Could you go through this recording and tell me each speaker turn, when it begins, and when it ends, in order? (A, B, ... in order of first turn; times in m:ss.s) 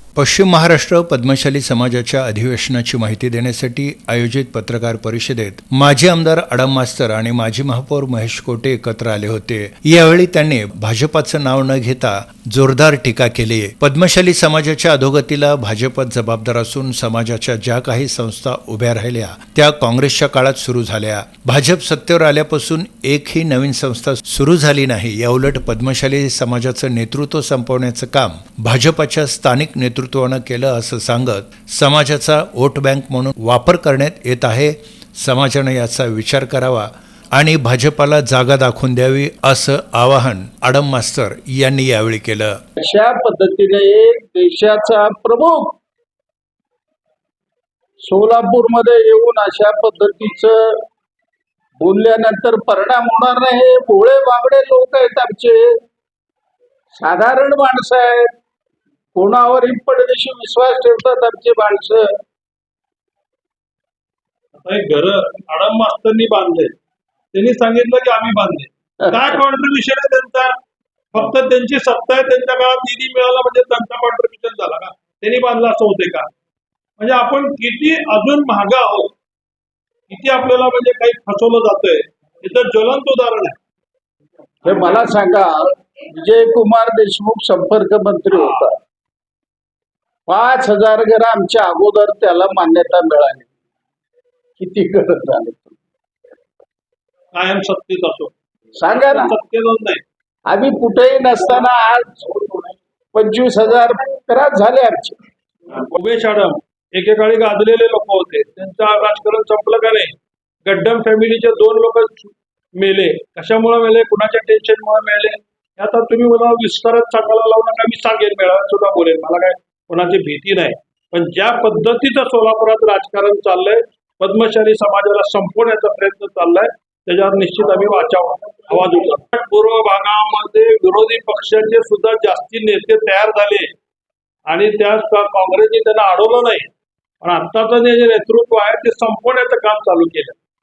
0:00.2-0:42.6 A
0:42.8-0:45.8 B
0:48.0-0:50.8 B
0:51.8-0:55.7 B
0:56.9-0:58.3 B
0:59.1-1:02.1 B
1:04.6-1:06.8 C
1:07.3-1:10.6 C
1:11.1-1:16.3 C
1:17.0-1:19.1 C
1:20.1-1:23.6 C
1:24.6-1:28.7 B
1:28.3-1:28.6 C
1:30.3-1:33.5 B
1:34.6-1:35.7 B
1:37.3-1:38.3 C
1:38.8-1:39.3 B
1:38.9-1:40.0 C
1:40.5-1:42.2 B
1:43.1-1:45.2 B
1:45.8-2:13.7 C
2:14.4-2:16.7 C
2:17.2-2:20.4 C